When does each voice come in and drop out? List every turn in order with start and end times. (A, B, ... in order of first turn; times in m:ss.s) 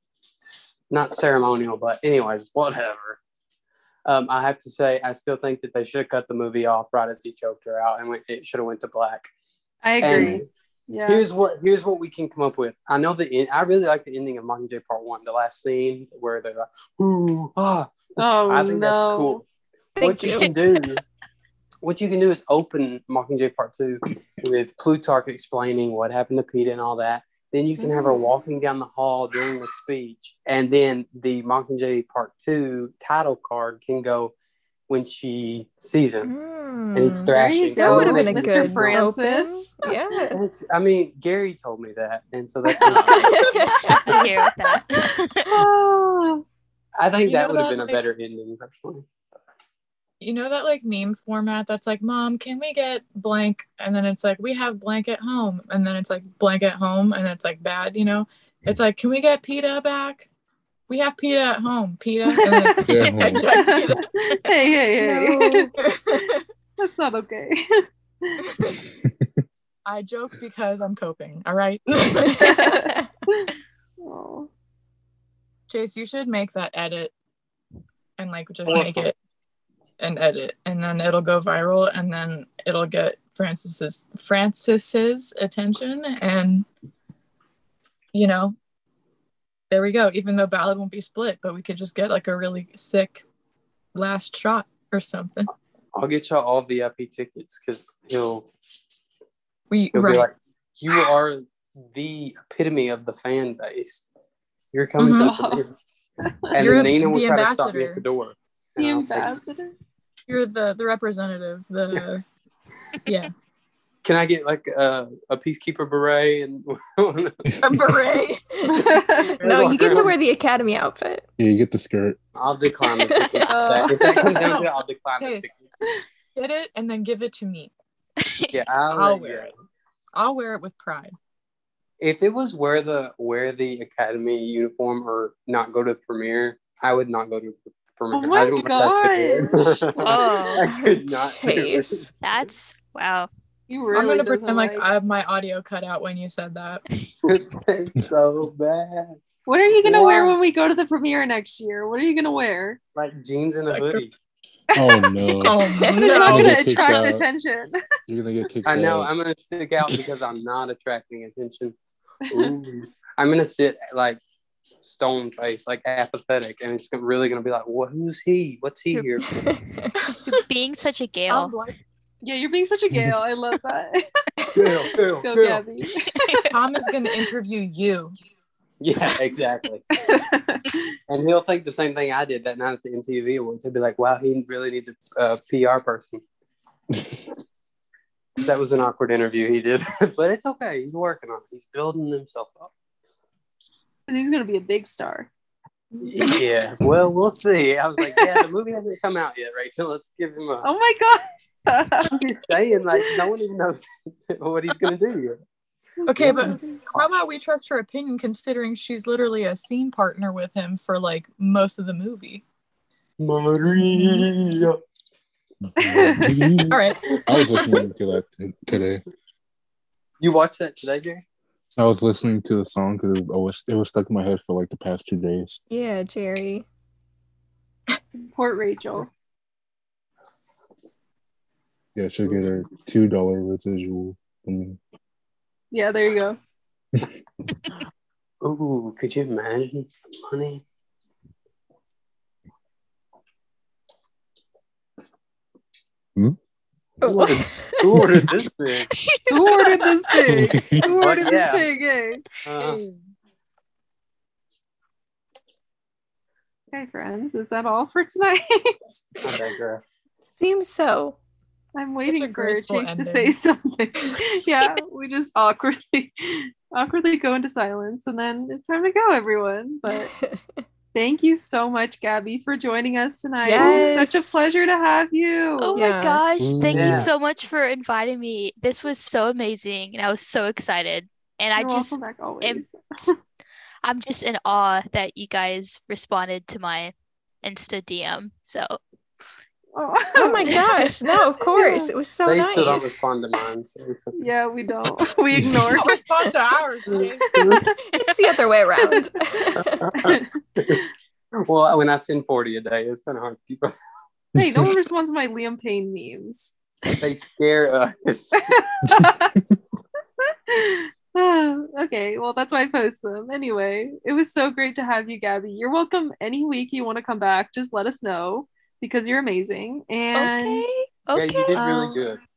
0:00.4-0:03.2 A
0:04.1-0:09.3 A
0:09.8-0:11.2 B
0:10.0-0:10.5 A
0:10.0-0:10.4 C
0:11.1-0:19.4 A
0:18.2-0:19.4 B
0:20.0-0:20.5 D
0:20.0-0:21.0 A
0:21.8-0:34.3 A
0:34.9-0:36.3 A
0:36.2-0:40.4 D
0:36.9-0:39.0 A
0:37.2-0:40.3 B
0:40.3-0:43.5 A
0:42.9-0:45.5 E
0:43.4-0:44.3 D
0:45.4-0:46.4 B
0:47.0-0:49.1 A
0:47.2-0:48.0 F
0:50.2-1:00.3 F
1:00.9-1:04.0 F
1:02.3-1:08.6 B
1:02.8-1:04.0 C
1:05.0-1:05.7 D
1:05.8-1:06.2 F
1:08.8-1:09.4 C
1:09.9-1:12.7 F
1:12.4-1:14.5 B
1:15.7-1:17.1 F
1:18.2-1:19.2 F
1:18.7-1:19.1 A
1:20.0-1:26.7 F
1:28.1-1:28.6 F
1:29.7-1:33.2 F
1:34.0-1:35.5 F
1:35.9-1:38.5 A
1:39.7-1:40.3 F
1:39.9-1:44.0 A
1:44.7-1:45.7 A
1:45.0-1:45.3 F
1:45.1-1:45.6 B
1:46.2-1:46.7 B
1:46.5-1:49.4 A
1:46.6-1:48.0 F
1:48.8-1:49.8 B
1:50.3-1:52.2 F
1:53.1-1:53.3 F
1:54.0-1:57.5 A
1:57.6-1:58.7 F
1:58.7-1:59.4 B
1:58.8-2:00.1 A
1:59.4-2:01.2 D
1:59.7-2:00.1 F
2:01.4-2:02.2 C
2:02.4-2:05.6 A
2:03.0-2:03.5 D
2:03.5-2:04.5 B
2:04.3-2:05.5 F
2:06.4-2:07.7 F
2:08.2-2:08.6 E
2:08.5-2:09.5 A
2:08.9-2:09.5 F
2:10.1-2:11.2 F
2:12.0-2:22.1 A
2:18.1-2:19.7 B
2:20.0-2:20.6 E
2:20.7-2:22.1 D
2:22.2-2:23.3 E
2:23.7-2:24.9 B
2:23.9-2:26.8 F
2:27.2-2:29.2 A
2:29.5-2:32.8 B
2:29.8-2:30.4 A
2:33.0-2:34.1 A
2:33.7-2:34.0 F
2:34.7-2:37.3 C
2:34.8-2:37.8 B
2:35.4-2:36.5 F
2:35.9-2:36.3 A
2:38.1-2:39.1 C
2:38.6-2:41.8 A
2:42.3-2:42.5 B
2:42.3-2:44.2 A
2:44.8-2:49.3 A
2:49.4-2:50.0 D
2:50.3-2:51.5 E
2:51.3-2:51.8 F
2:52.2-2:54.1 B
2:52.9-2:53.2 C
2:54.6-2:55.6 A
2:55.2-2:56.3 B
2:56.5-2:58.2 F
2:58.8-2:59.8 A
2:59.9-3:00.8 B
3:01.1-3:06.2 A
3:08.4-3:12.7 A
3:14.1-3:15.3 B
3:15.9-3:16.5 B
3:16.0-3:20.7 A
3:18.0-3:18.4 B
3:20.6-3:22.2 B
3:22.1-3:25.4 A
3:22.9-3:23.2 B
3:26.0-3:26.9 B
3:26.1-3:32.4 F
3:26.2-3:27.2 A
3:33.2-3:34.8 A
3:33.8-3:34.3 F
3:35.6-3:39.0 C
3:35.8-3:36.7 B
3:36.7-3:37.2 F
3:37.0-3:37.8 A
3:40.2-3:41.2 A
3:41.8-3:45.6 C
3:45.7-3:46.7 D
3:48.1-3:49.1 B
3:52.0-3:54.8 C
3:55.7-3:56.4 B
3:58.4-4:00.6 A
4:07.0-4:07.9 D
4:07.0-4:08.9 A
4:07.9-4:08.3 C
4:09.0-4:10.1 E
4:09.3-4:12.3 B
4:10.3-4:10.9 C
4:11.0-4:11.7 A
4:12.4-4:12.8 A
4:12.6-4:13.0 F
4:16.7-4:19.2 B
4:19.2-4:19.8 A
4:20.4-4:21.2 D
4:21.8-4:30.1 B
4:22.1-4:23.4 F
4:29.9-4:30.6 D
4:30.9-4:35.8 B
4:33.4-4:34.5 D
4:35.6-4:43.1 E
4:35.8-4:36.2 D
4:36.4-4:37.1 A
4:41.6-4:43.2 B
4:43.8-4:48.8 E
4:49.7-4:50.8 B
4:50.2-4:53.0 D
4:51.4-4:51.9 B
4:52.2-4:54.2 A
4:54.2-4:56.3 B
4:55.7-4:57.6 F
4:56.9-4:57.7 A
4:57.2-4:57.6 B
4:57.8-4:59.8 D
4:59.6-5:00.8 A
5:00.0-5:00.9 B
5:01.4-5:03.8 A
5:04.4-5:06.6 B
5:04.4-5:04.7 C
5:07.0-5:08.4 A
5:08.4-5:09.4 B
5:10.2-5:20.7 B
5:20.2-5:20.6 D
5:20.3-5:21.6 E
5:21.1-5:22.2 A
5:21.6-5:22.0 B